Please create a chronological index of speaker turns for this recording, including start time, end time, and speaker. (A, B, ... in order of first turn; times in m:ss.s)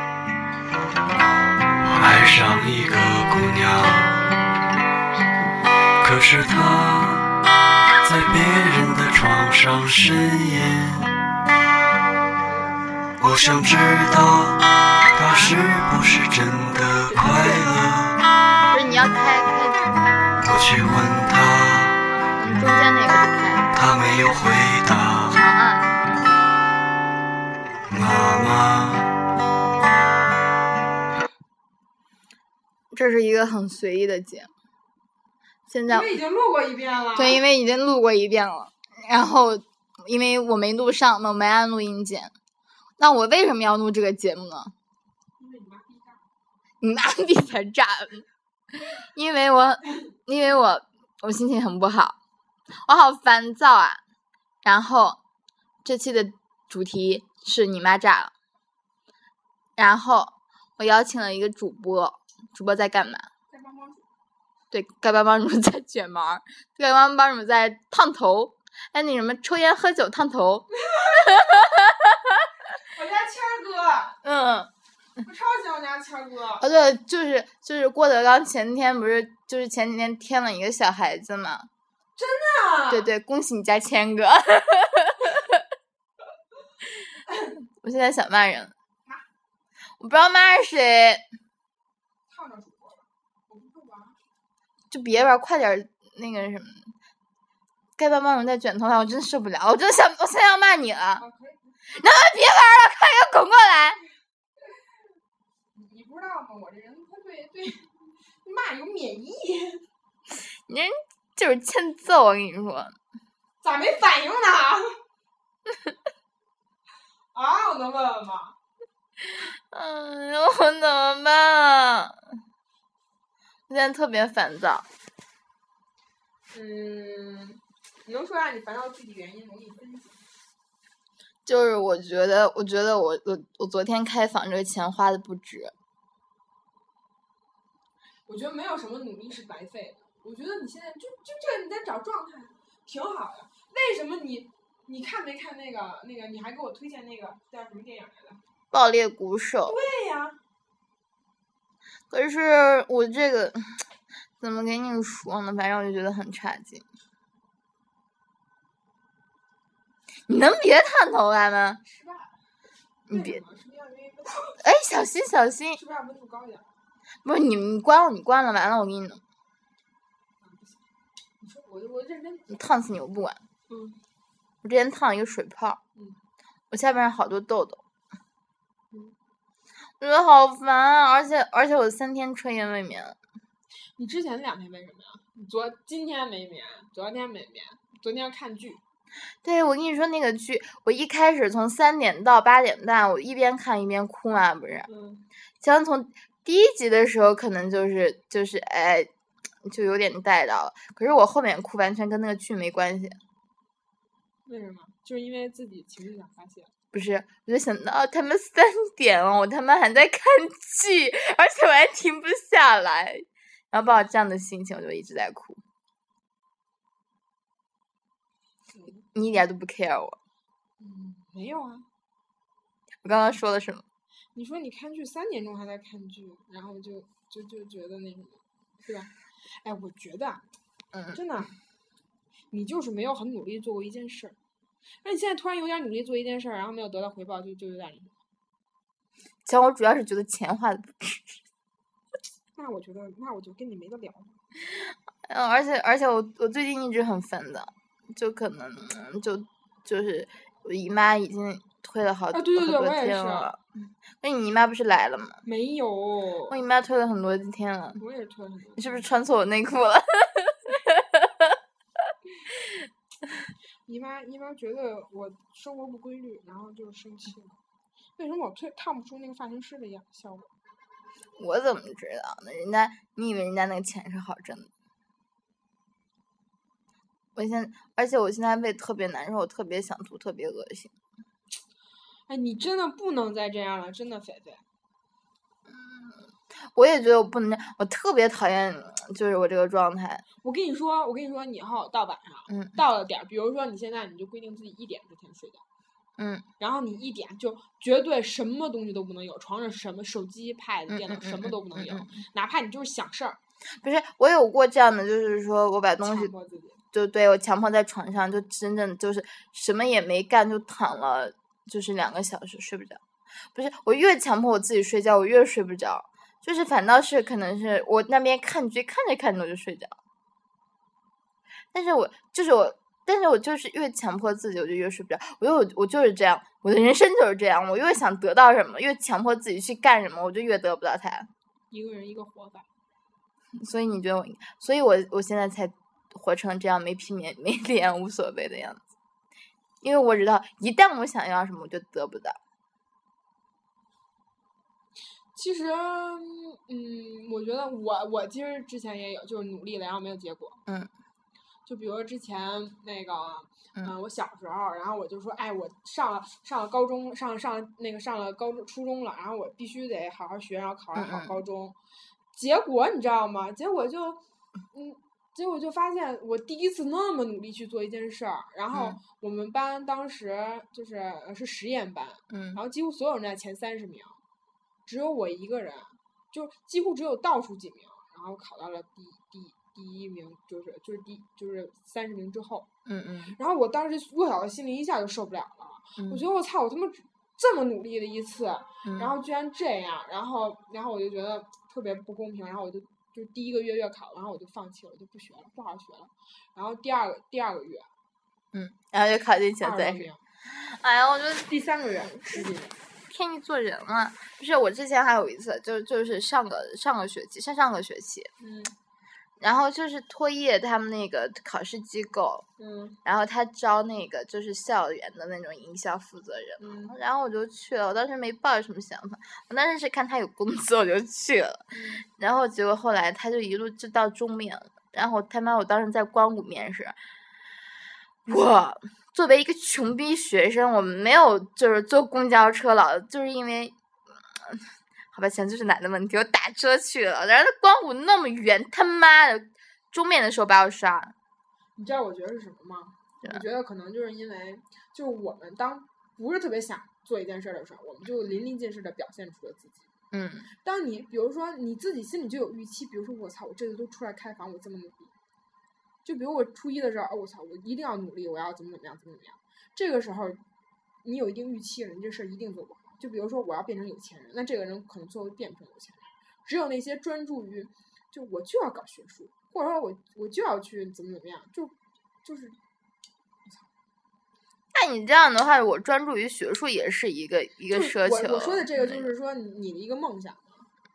0:01.9-0:04.1 A
0:06.0-0:07.3 A
0:08.0-0:11.1 A
0:12.4-0:12.9 B
0:13.2-0:18.2 A
0:15.2-0:15.6 C
0:17.1-0:17.7 C
0:18.7-0:20.0 C
0:20.4-0:22.0 A
0:22.4-0:23.7 C
0:23.7-0:25.4 A
0:25.3-0:26.0 C
0:27.9-0:29.1 A
0:32.9-0:34.5 C
0:35.7-0:36.1 C
0:35.9-0:37.4 B
0:37.1-0:42.3 C
0:43.0-0:44.7 C
0:45.4-0:46.2 B
0:46.8-0:52.2 C
0:52.8-0:54.0 C
0:54.6-0:55.2 C
0:55.8-0:58.3 C
0:59.8-1:03.3 C
1:03.5-1:04.0 B
1:04.7-1:12.5 C
1:10.9-1:11.4 B
1:12.8-1:14.2 B
1:14.2-1:14.7 C
1:15.2-1:16.7 B
1:16.6-1:21.7 C
1:22.2-1:23.1 B
1:22.9-1:25.6 C
1:27.8-1:28.7 C
1:30.0-1:31.2 C
1:32.3-1:34.2 B
1:34.9-1:36.9 C
1:38.0-1:41.2 C
1:41.2-1:41.8 B
1:41.9-1:44.0 C
1:45.7-1:49.8 B
1:50.3-1:53.0 C
1:53.6-1:55.0 B
1:55.7-1:55.9 C
1:57.3-1:58.6 B
1:59.2-2:02.2 C
2:03.7-2:04.9 C
2:06.5-2:10.2 B
2:11.4-2:15.7 C
2:18.3-2:28.4 B
2:28.7-2:29.8 C
2:29.6-2:30.4 B
2:32.1-2:33.6 C
2:34.4-2:36.8 C
2:40.3-2:41.8 C
2:41.8-2:42.4 B
2:43.1-2:43.4 C
2:43.1-2:44.6 B
2:44.6-2:45.8 C
2:45.7-2:46.7 B
2:47.2-2:49.2 C
2:50.4-2:50.8 B
2:51.4-2:52.6 B
2:52.5-2:53.4 C
2:53.7-2:54.0 B
2:54.6-2:55.8 C
2:55.9-2:56.2 B
2:56.7-2:57.8 C
2:58.9-2:59.2 B
3:00.0-3:03.2 C
3:04.0-3:08.8 B
3:09.4-3:14.9 C
3:14.9-3:15.3 B
3:15.6-3:19.1 C
3:19.6-3:23.2 C
3:24.4-3:26.7 B
3:26.9-3:35.6 C
3:38.7-3:39.0 B
3:39.1-3:40.2 C
3:40.8-3:41.9 B
3:43.0-3:43.8 C
3:44.3-3:50.4 B
3:50.9-3:51.2 C
3:51.1-3:51.6 B
3:52.5-3:54.4 B
3:55.0-3:58.2 B
3:59.4-4:01.4 C
4:02.6-4:04.4 B
4:04.8-4:13.6 C
4:12.3-4:13.5 B
4:14.2-4:15.4 C
4:15.4-4:16.6 B
4:16.5-4:18.0 C
4:18.0-4:19.1 B
4:18.8-4:21.6 C
4:23.8-4:27.6 B
4:28.2-4:30.5 B
4:31.4-4:34.7 C
4:37.3-4:40.9 C
4:42.3-4:44.6 B
4:45.6-4:50.2 C
4:50.4-4:55.6 B
4:52.5-4:52.8 C
4:56.2-4:56.4 C
4:56.6-5:03.4 B
5:00.9-5:02.2 C
5:03.8-5:06.3 C
5:06.0-5:06.8 B
5:06.9-5:13.0 C
5:13.5-5:20.0 C
5:21.7-5:31.3 C
5:31.7-5:32.7 B
5:33.6-5:38.8 C
5:39.8-5:42.4 C
5:45.3-5:50.6 B
5:51.6-6:01.8 B
6:01.0-6:01.4 C
6:02.3-6:14.2 B
6:08.7-6:09.0 C
6:12.3-6:12.6 C
6:14.8-6:22.7 B
6:22.8-6:23.4 C
6:23.3-6:37.9 B
6:26.0-6:26.2 C
6:28.8-6:29.1 C
6:38.5-6:41.5 C
6:39.6-6:40.2 B
6:41.5-6:42.8 B
6:43.1-6:48.3 C
6:48.4-6:48.7 B
6:49.4-6:52.4 C
6:52.6-6:53.0 B
6:53.0-7:07.0 C
6:56.6-6:56.9 B
7:01.7-7:02.0 B
7:08.2-7:21.1 C
7:21.8-7:29.9 B
7:30.1-7:30.5 C
7:30.5-7:35.1 B
7:36.0-7:40.4 B
7:41.0-7:52.6 B
7:53.4-7:53.7 B
7:54.7-7:59.1 C
7:57.7-8:00.7 B